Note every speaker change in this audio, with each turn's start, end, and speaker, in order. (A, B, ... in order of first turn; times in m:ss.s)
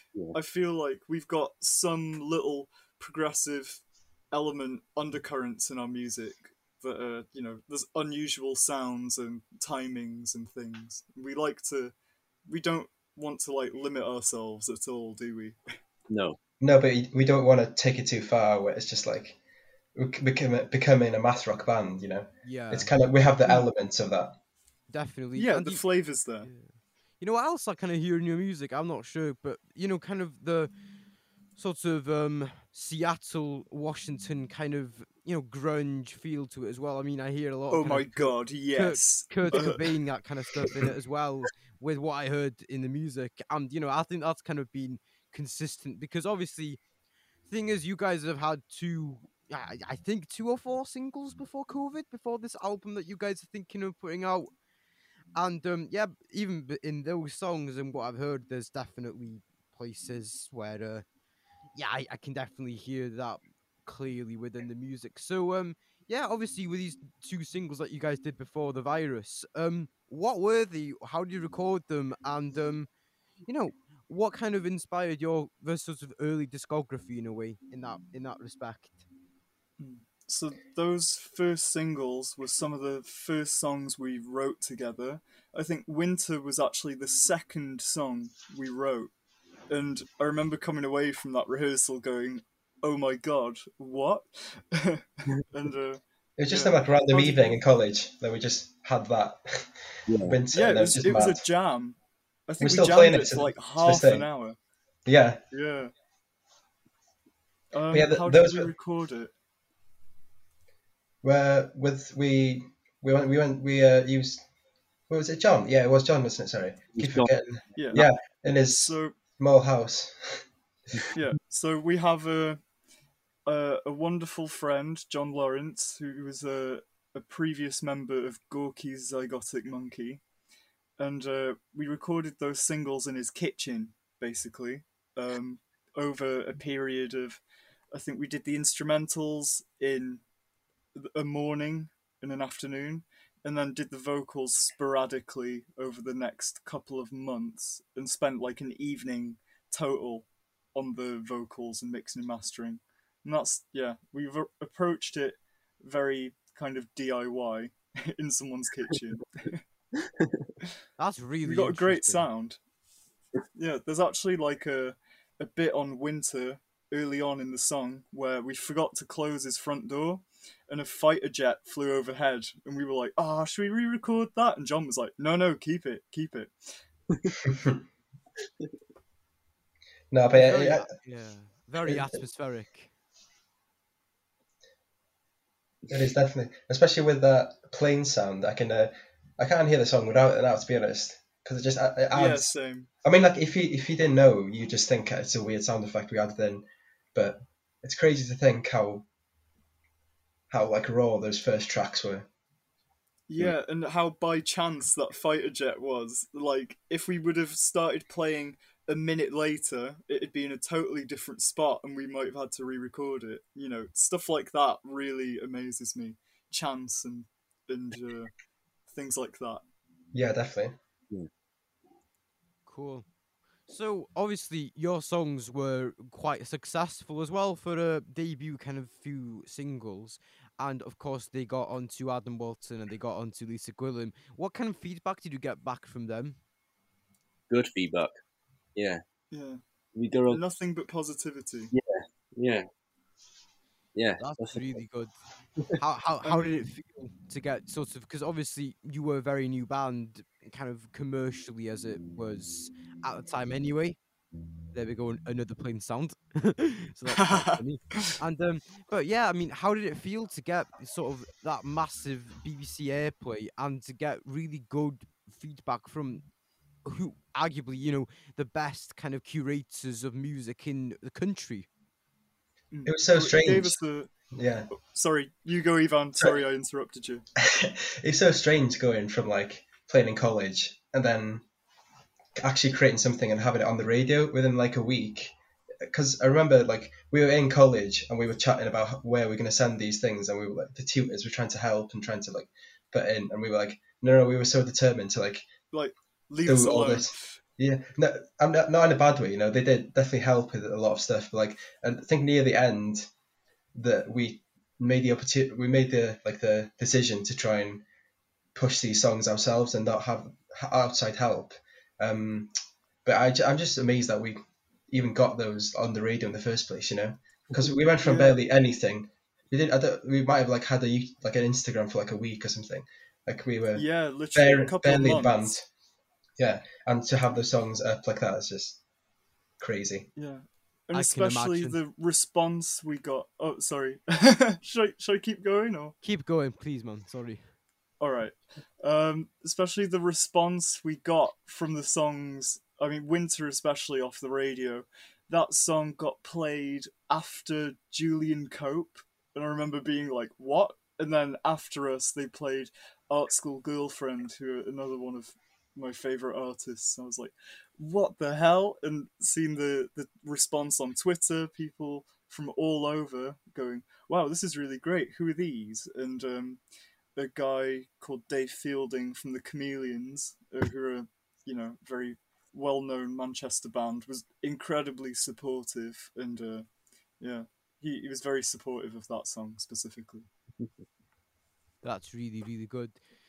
0:00.3-0:11.9 A
0:12.5-0:15.6 A
0:16.1-0:16.4 B
0:16.6-0:19.4 C
0:20.0-0:24.4 C
0:22.4-0:22.9 D
0:24.9-0:25.8 D
0:25.4-0:26.5 A
0:26.4-0:30.7 D
0:31.6-0:46.8 D
0:37.7-0:39.9 A
0:47.5-0:54.5 D
0:55.4-1:01.0 D
1:01.8-1:12.9 D
1:13.5-1:19.0 D
1:19.8-1:29.1 A
1:29.7-1:37.6 A
1:36.4-1:41.4 C
1:40.1-1:40.4 B
1:40.5-1:44.6 A
1:42.6-1:44.3 C
1:45.1-1:45.4 C
1:45.5-1:45.9 A
1:47.7-1:49.3 A
1:47.9-1:48.7 C
1:51.2-1:54.4 C
1:55.1-2:00.4 C
1:57.0-1:57.3 B
1:57.8-1:58.1 A
1:58.7-1:59.1 A
2:01.1-2:02.6 A
2:03.5-2:10.2 A
2:11.0-2:20.2 A
2:21.0-2:39.6 A
2:40.0-2:40.4 B
2:41.0-2:42.3 D
2:41.4-2:42.6 A
2:43.6-2:56.5 A
2:57.4-2:57.8 C
3:00.1-3:00.9 C
3:00.3-3:02.9 D
3:05.9-3:19.1 C
3:12.1-3:12.9 A
3:20.5-3:22.3 C
3:23.3-3:38.3 A
3:38.9-3:39.6 A
3:40.1-3:40.8 C
3:42.7-3:43.1 D
3:43.7-3:56.4 D
3:57.5-3:58.2 B
3:58.8-3:59.0 B
3:59.3-3:59.6 A
4:00.0-4:00.4 B
4:00.3-4:01.7 A
4:01.7-4:02.6 B
4:04.0-4:04.8 B
4:04.2-4:05.1 D
4:05.8-4:14.0 D
4:06.2-4:06.6 A
4:14.7-4:26.2 D
4:17.2-4:18.1 A
4:26.8-4:31.7 D
4:32.7-4:34.1 A
4:32.8-4:33.8 C
4:34.3-4:34.7 C
4:34.7-4:37.2 A
4:37.4-4:41.4 C
4:42.4-4:55.4 C
4:55.7-4:57.4 A
4:56.4-5:03.1 C
5:03.8-5:07.8 C
5:08.6-5:12.5 C
5:13.0-5:25.7 C
5:18.0-5:18.4 A
5:23.7-5:25.6 A
5:26.4-5:28.8 C
5:29.6-5:30.1 C
5:30.2-5:36.0 A
5:30.9-5:31.8 D
5:36.0-5:37.5 D
5:38.0-6:06.6 A
6:07.2-6:16.7 A
6:17.2-6:20.3 A
6:21.8-6:23.0 D